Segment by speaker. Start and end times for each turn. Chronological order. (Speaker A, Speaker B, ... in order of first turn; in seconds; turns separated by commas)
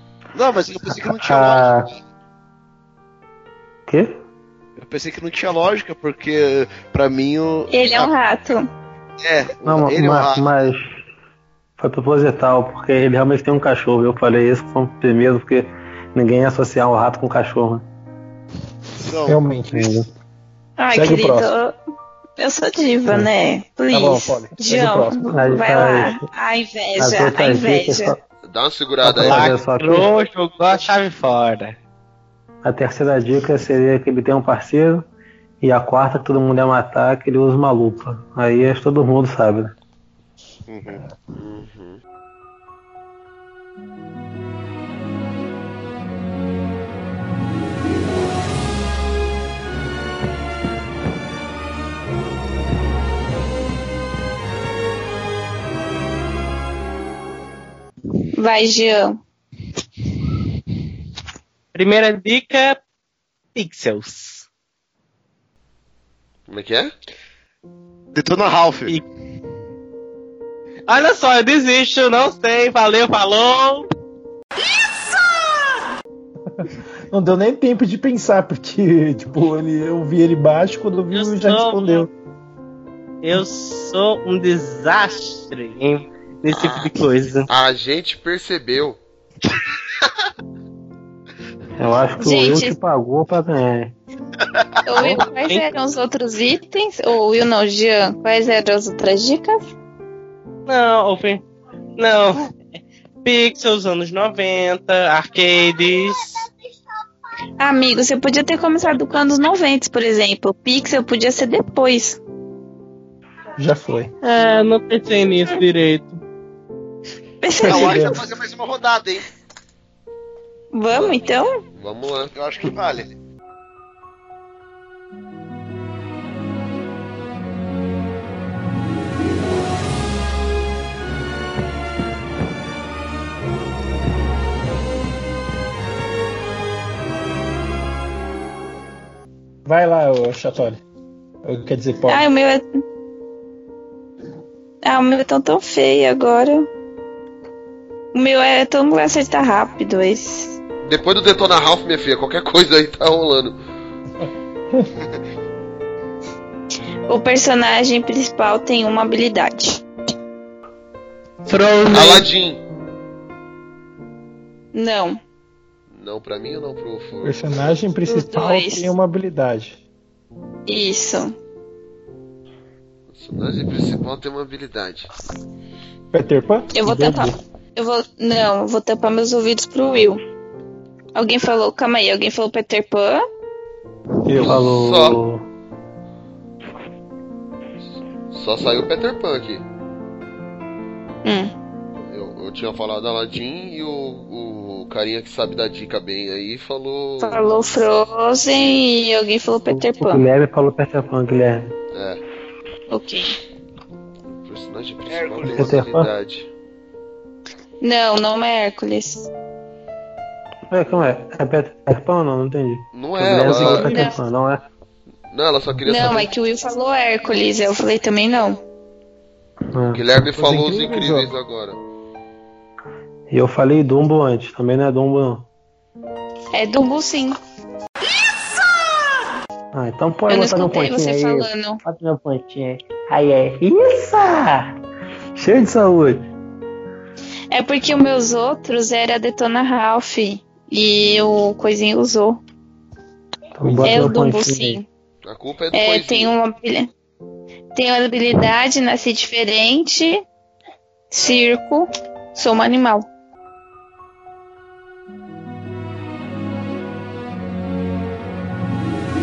Speaker A: 0.3-1.8, Speaker B: 0.9-1.9, Speaker B: 3.9-4.2, Speaker A: 4.8-8.1, Speaker C: 7.7-8.7, Speaker A: 9.2-10.5, Speaker B: 9.6-11.0, Speaker B: 11.8-17.9, Speaker A: 19.0-19.4, Speaker D: 19.2-20.1, Speaker B: 19.7-20.1, Speaker C: 20.8-21.8, Speaker D: 20.9-21.5, Speaker C: 22.4-28.1, Speaker D: 23.9-26.1, Speaker B: 25.2-26.2, Speaker B: 27.0-28.2, Speaker E: 28.4-29.6, Speaker B: 29.0-30.1, Speaker F: 29.2-31.8, Speaker B: 32.6-35.1, Speaker B: 35.6-39.7, Speaker A: 40.7-41.1, Speaker E: 41.4-42.0, Speaker C: 58.4-59.2, Speaker F: 61.7-62.8, Speaker F: 63.5-64.5, Speaker E: 66.5-66.9, Speaker A: 68.1-69.0, Speaker F: 70.9-73.9, Speaker D: 76.6-82.1, Speaker F: 81.1-82.1, Speaker F: 83.2-87.5, Speaker E: 86.5-86.9, Speaker E: 87.5-89.0, Speaker B: 91.8-94.0, Speaker C: 92.2-92.7, Speaker C: 94.9-99.6, Speaker F: 95.0-95.7, Speaker F: 100.7-101.4, Speaker F: 102.0-102.5, Speaker F: 103.2-106.4, Speaker C: 107.6-112.2, Speaker D: 113.6-114.1, Speaker F: 114.2-116.2, Speaker C: 117.4-118.1, Speaker A: 117.6-119.2, Speaker D: 117.7-118.2, Speaker C: 120.7-121.6, Speaker E: 120.9-121.2, Speaker E: 121.7-122.3, Speaker A: 122.3-123.1, Speaker D: 139.7-140.8, Speaker D: 141.4-142.2, Speaker C: 142.1-142.7, Speaker C: 144.8-146.7, Speaker C: 148.1-150.6, Speaker E: 150.8-153.6, Speaker C: 157.1-159.8, Speaker F: 161.4-162.3, Speaker E: 161.9-162.6, Speaker C: 164.7-165.2, Speaker E: 165.9-167.7, Speaker D: 167.2-169.8, Speaker C: 168.1-168.9, Speaker C: 170.7-171.3, Speaker E: 173.1-175.1, Speaker D: 176.1-176.7, Speaker C: 176.7-180.2, Speaker B: 176.8-177.3, Speaker C: 181.2-183.2, Speaker B: 184.3-185.4, Speaker E: 184.4-185.2, Speaker E: 188.3-189.7, Speaker C: 191.2-191.5, Speaker E: 192.1-197.5, Speaker C: 197.2-200.2, Speaker B: 199.7-201.7, Speaker E: 201.9-202.2, Speaker C: 202.9-203.3, Speaker E: 204.3-206.5, Speaker A: 205.1-205.8, Speaker B: 205.4-206.1, Speaker C: 207.8-209.3, Speaker B: 210.7-214.6, Speaker E: 212.9-213.9, Speaker C: 213.9-214.2, Speaker E: 215.3-216.3, Speaker C: 215.8-218.6, Speaker B: 219.7-220.0, Speaker E: 219.9-221.8, Speaker D: 220.3-221.3, Speaker B: 223.3-225.5, Speaker C: 226.5-227.4, Speaker B: 229.7-234.8, Speaker C: 230.3-231.8, Speaker B: 235.3-236.3, Speaker C: 237.5-242.4, Speaker B: 243.6-244.8, Speaker D: 243.6-244.1, Speaker C: 243.8-244.8, Speaker E: 245.2-246.3, Speaker C: 245.7-246.9, Speaker C: 247.7-250.2, Speaker C: 251.1-253.1